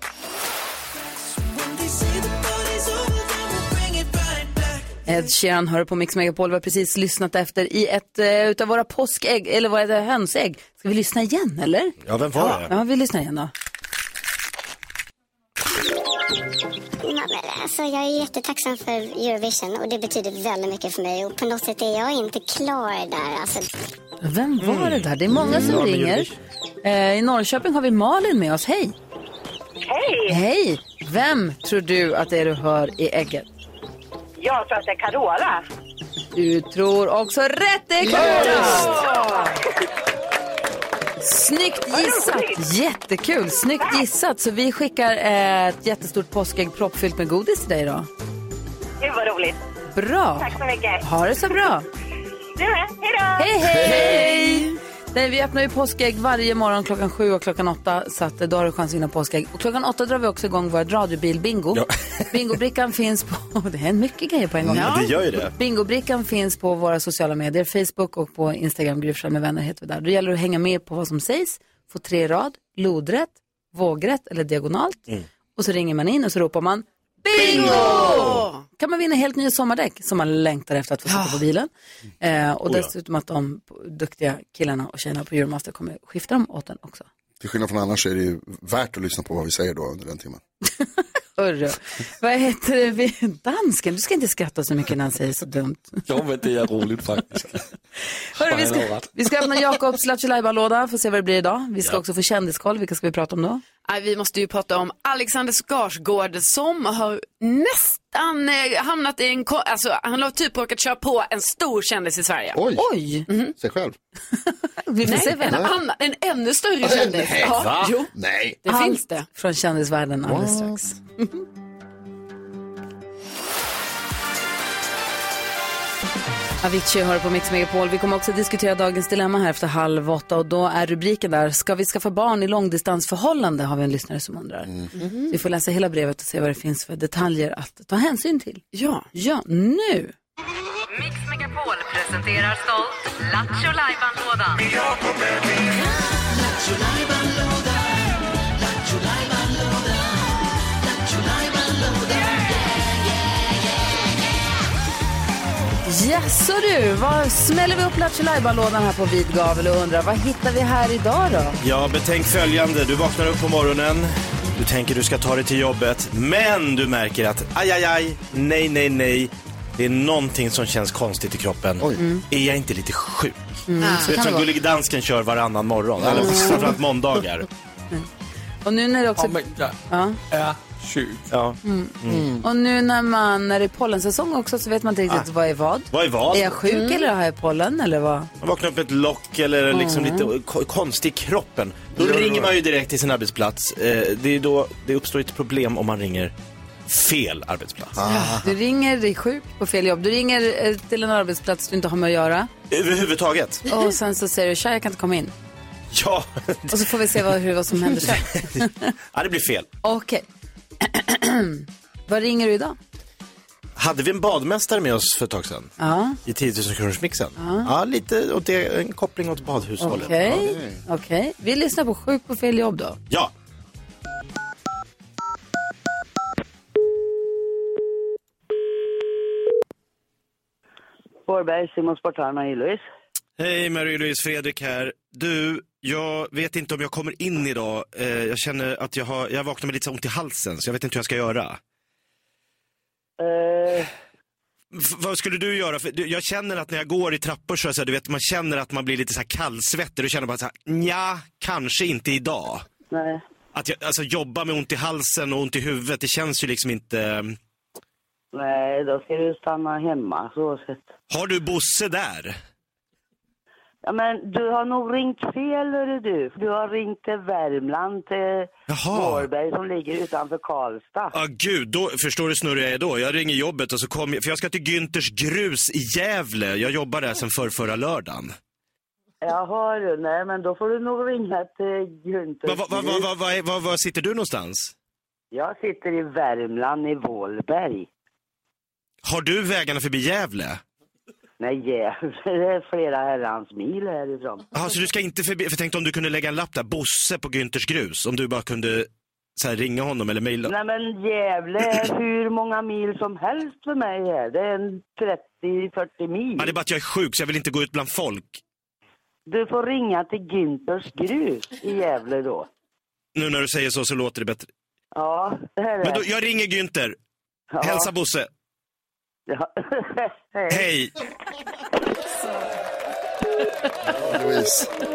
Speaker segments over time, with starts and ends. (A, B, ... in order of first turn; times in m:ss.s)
0:05.1-0:13.5 A
0:12.0-0:12.7 B
0:17.0-0:23.7 C
0:24.2-0:26.3 A
0:24.6-0:26.3 B
0:26.8-0:29.0 A
0:29.9-0:30.4 D
0:30.3-0:33.5 A
0:34.4-0:35.5 D
0:36.4-0:39.2 A
0:38.1-0:39.5 D
0:41.2-0:48.1 A
0:41.9-0:42.6 D
0:49.0-0:49.5 D
0:49.9-0:51.9 A
0:50.4-0:51.0 D
0:52.6-0:53.5 D
0:53.4-1:15.0 A
0:53.6-0:54.2 E
0:54.4-0:54.7 F
1:04.6-1:05.5 B
1:15.6-1:21.7 A
1:17.3-1:18.6 F
1:17.5-1:17.8 B
1:21.1-1:21.4 F
1:22.2-1:27.1 A
1:22.7-1:22.9 B
1:27.4-1:30.4 E
1:31.4-1:36.0 A
1:36.1-1:37.6 G
1:38.4-1:43.6 A
1:38.4-1:39.1 G
1:43.9-1:52.6 F
1:52.5-1:52.9 E
1:52.8-1:53.3 A
1:53.3-1:53.5 F
1:53.6-1:54.0 E
1:54.8-1:55.7 A
1:55.0-1:59.3 F
1:56.8-1:58.6 E
1:57.5-1:57.9 G
1:58.7-2:01.0 A
2:00.2-2:00.8 E
2:06.6-2:14.7 A
2:15.0-2:15.4 F
2:15.3-2:20.1 A
2:18.7-2:19.1 F
2:21.0-2:24.6 H
2:35.9-2:41.6 A
2:41.6-2:53.4 B
2:52.0-2:52.2 A
2:53.7-2:54.5 A
2:54.0-2:57.5 B
2:56.0-2:56.6 E
2:56.1-2:56.8 A
2:58.6-3:00.2 A
2:59.2-2:59.8 G
3:00.3-3:01.2 G
3:01.3-3:02.4 B
3:01.6-3:08.3 A
3:05.9-3:06.6 B
3:06.7-3:07.1 F
3:08.4-3:16.3 B
3:09.7-3:10.3 A
3:12.0-3:12.6 E
3:16.9-3:18.0 B
3:18.0-3:18.5 E
3:18.1-3:18.4 F
3:18.4-3:22.5 A
3:22.7-3:23.6 B
3:23.7-3:25.3 A
3:25.9-3:26.8 B
3:26.7-3:28.8 A
3:29.1-3:29.7 B
3:29.8-3:30.2 A
3:30.8-3:32.8 A
3:33.8-3:35.7 B
3:35.8-3:36.2 A
3:36.2-3:40.3 B
3:37.4-3:37.7 A
3:39.8-3:43.0 A
3:40.1-3:40.8 E
3:51.3-3:52.8 I
3:53.4-4:01.6 B
4:03.2-4:03.9 I
4:04.7-4:12.6 B
4:12.9-4:13.2 I
4:13.5-4:17.4 B
4:18.3-4:20.9 I
4:21.1-4:22.4 B
4:23.8-4:31.1 I
4:28.7-4:29.3 B
4:31.1-4:38.3 B
4:39.2-4:43.1 I
4:42.5-4:44.7 B
4:45.3-4:47.9 I
4:49.0-4:50.6 B
4:51.4-4:54.4 I
4:54.5-5:00.5 B
5:00.5-5:06.6 I
5:06.4-5:08.4 B
5:09.3-5:12.5 I
5:13.2-5:14.5 B
5:15.0-5:16.0 I
5:15.8-5:17.0 B
5:17.5-5:17.9 I
5:17.6-5:18.3 B
5:19.3-5:20.7 I
5:20.5-5:20.9 B
5:24.0-5:24.7 E